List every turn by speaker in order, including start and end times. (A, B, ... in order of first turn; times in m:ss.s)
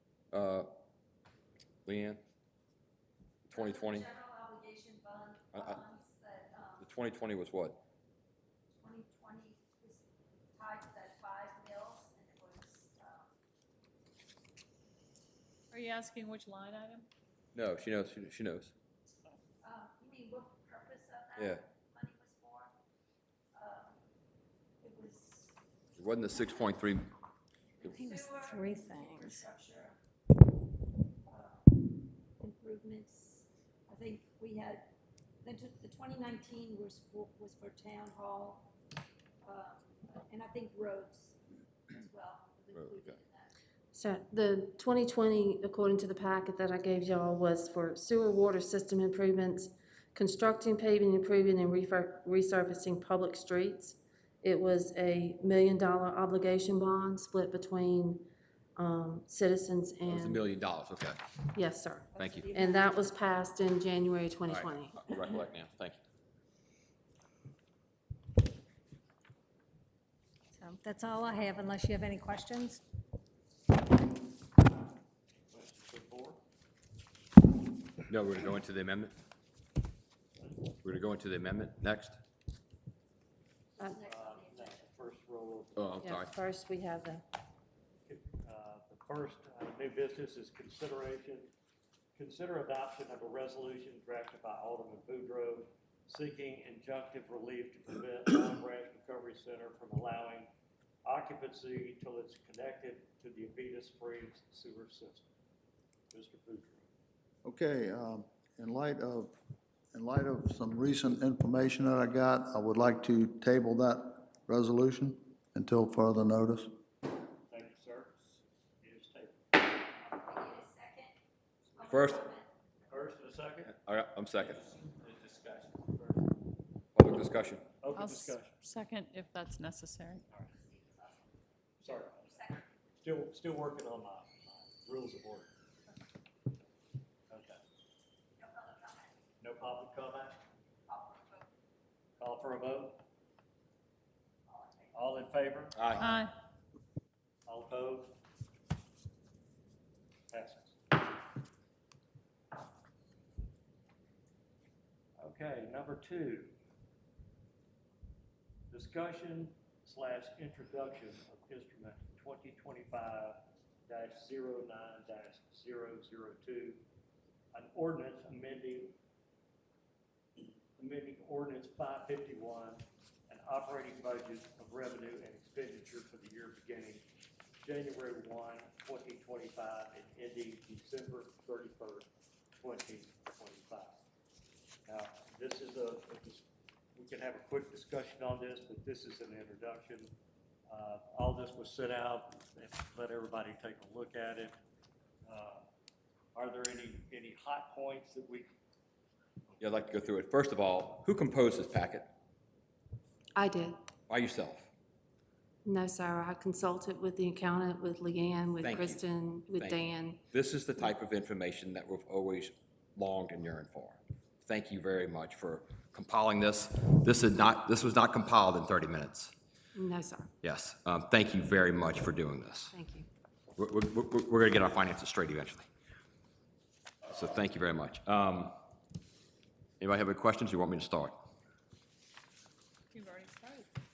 0:00.3-0:00.7 A
0:01.9-0:02.2 A
0:03.5-0:04.1 A
0:03.5-0:06.9 B
0:05.5-0:05.8 A
0:06.8-0:07.8 A
0:08.8-0:13.3 B
0:15.7-0:17.1 C
0:17.6-0:18.7 A
0:19.6-0:22.7 B
0:23.5-0:24.0 B
0:24.8-0:25.6 B
0:26.0-0:27.1 A
0:27.8-0:30.0 B
0:27.8-0:29.5 D
0:31.3-0:31.8 B
0:32.4-0:34.9 B
0:35.4-0:38.7 B
0:39.4-0:41.4 B
0:41.9-0:43.5 B
0:42.8-0:43.2 A
0:43.9-0:58.2 E
0:58.8-1:00.4 E
1:00.1-1:01.2 A
1:01.5-1:05.0 E
1:02.1-1:03.1 B
1:02.2-1:02.5 A
1:04.5-1:06.0 A
1:10.6-1:12.8 D
1:15.5-1:16.4 F
1:18.1-1:19.1 A
1:20.8-1:22.2 A
1:23.8-1:24.9 B
1:24.0-1:25.9 F
1:25.8-1:26.3 A
1:26.0-1:27.2 E
1:28.1-1:31.5 F
1:32.2-1:40.5 F
1:41.0-1:45.3 F
1:46.1-1:46.9 F
1:47.4-1:49.3 G
1:49.9-1:56.7 G
1:57.5-1:59.5 F
1:59.9-2:01.2 B
2:01.8-2:02.5 B
2:01.8-2:02.3 A
2:02.9-2:03.8 F
2:03.8-2:04.8 A
2:05.2-2:06.2 F
2:07.0-2:07.6 A
2:07.8-2:08.6 F
2:07.9-2:10.2 C
2:10.5-2:11.4 B
2:11.8-2:12.4 F
2:12.2-2:12.7 B
2:13.0-2:15.5 F
2:17.3-2:17.6 F
2:18.4-2:19.2 B
2:19.4-2:20.4 F
2:20.9-2:21.5 B
2:22.2-2:23.0 F
2:24.5-2:25.2 B
2:24.9-2:25.8 F
2:25.8-2:26.1 A
2:26.0-2:26.3 C
2:27.5-2:28.1 F
2:30.3-2:30.8 F
2:35.2-2:36.5 F
2:38.7-2:46.8 F
2:47.5-2:49.0 F
2:50.8-2:57.0 F
2:57.6-3:04.0 F
3:04.9-3:10.1 F
3:10.7-3:14.6 F
3:15.3-3:15.6 F
3:16.3-3:18.5 F
3:19.6-3:22.1 A
3:23.4-3:23.8 E
3:24.1-3:24.7 A
3:25.6-3:30.2 E
3:28.6-3:29.0 A
3:29.6-3:39.3 A
3:39.8-3:40.3 E
3:40.4-3:42.8 A
3:42.7-3:43.1 E
3:43.6-3:45.7 A
3:47.1-3:48.5 A
3:49.8-3:51.2 A
3:52.9-3:53.7 C